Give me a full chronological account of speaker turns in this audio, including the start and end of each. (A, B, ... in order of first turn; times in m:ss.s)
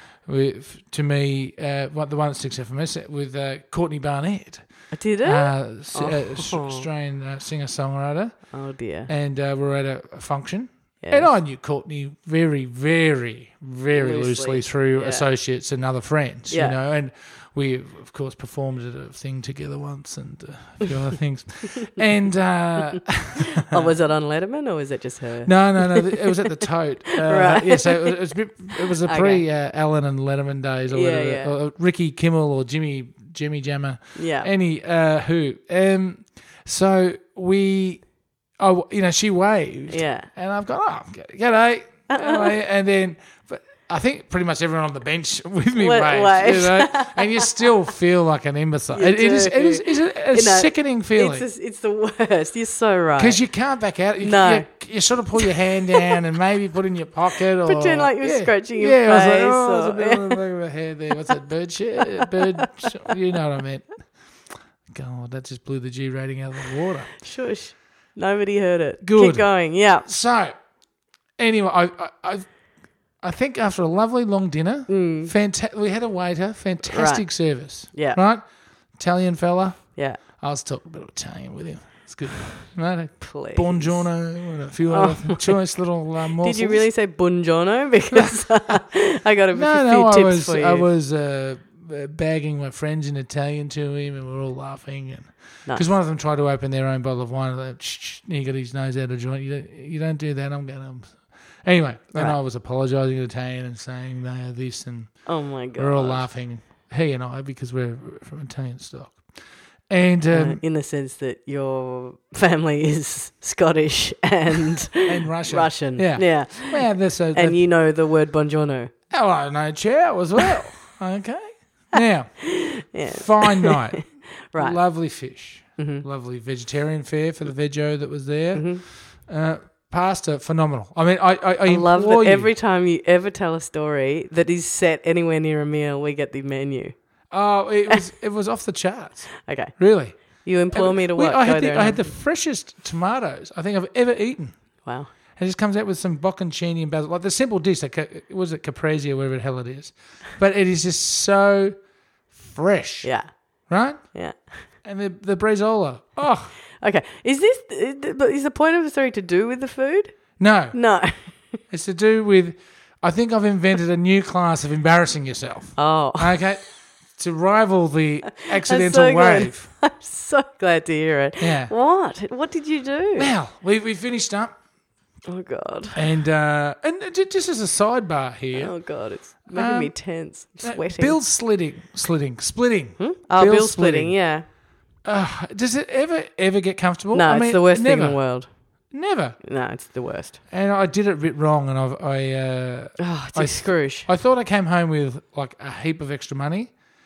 0:00.2-0:04.6 A
0:04.9-0:06.9 B
0:05.2-0:08.4 A
0:08.5-0:09.1 B
0:09.1-0:23.9 A
0:11.0-0:11.3 B
0:13.9-0:15.2 B
0:16.5-0:16.8 B
0:23.6-0:26.4 B
0:25.4-0:38.0 A
0:27.1-0:28.2 B
0:28.8-0:29.4 B
0:30.9-0:31.5 B
0:34.2-0:34.5 B
0:38.6-0:51.4 A
0:39.9-0:40.3 B
0:42.1-0:42.6 B
0:45.8-0:47.7 B
0:48.9-0:53.4 B
0:53.2-1:03.9 A
0:54.2-0:54.7 B
0:55.4-0:56.2 B
0:57.6-1:00.4 B
1:02.2-1:03.1 B
1:04.9-1:07.1 A
1:07.2-1:10.1 B
1:09.0-1:09.5 A
1:10.0-1:10.5 A
1:11.4-1:12.5 A
1:13.2-1:18.4 A
1:14.9-1:15.3 B
1:16.8-1:17.2 B
1:17.9-1:18.2 B
1:19.0-1:26.8 A
1:23.2-1:24.1 B
1:24.9-1:25.6 B
1:26.4-1:30.9 B
1:29.5-1:49.2 A
1:45.2-1:46.3 B
1:49.9-1:50.6 A
1:50.3-1:58.9 B
1:55.1-1:57.6 A
1:59.1-2:02.5 A
2:02.4-2:04.8 B
2:03.1-2:12.5 A
2:05.8-2:06.0 B
2:08.5-2:08.8 B
2:11.7-2:16.9 B
2:17.3-2:24.6 A
2:19.4-2:22.1 B
2:24.8-2:25.1 B
2:25.3-2:31.8 A
2:32.4-2:33.1 A
2:33.7-2:34.1 A
2:34.1-2:34.5 B
2:34.8-2:36.5 A
2:36.8-2:41.6 B
2:40.4-2:40.8 A
2:41.7-2:49.7 A
2:45.8-2:46.4 B
2:48.3-2:53.3 B
2:51.4-2:51.7 A
2:53.2-2:54.6 A
2:55.3-2:56.0 B
2:55.9-2:58.8 A
2:58.5-3:01.2 B
2:59.5-3:00.0 A
3:00.6-3:04.1 A
3:03.0-3:04.4 B
3:05.0-3:08.2 A
3:07.1-3:08.5 B
3:08.9-3:09.4 A
3:09.4-3:10.4 B
3:10.5-3:16.7 A
3:13.0-3:14.1 B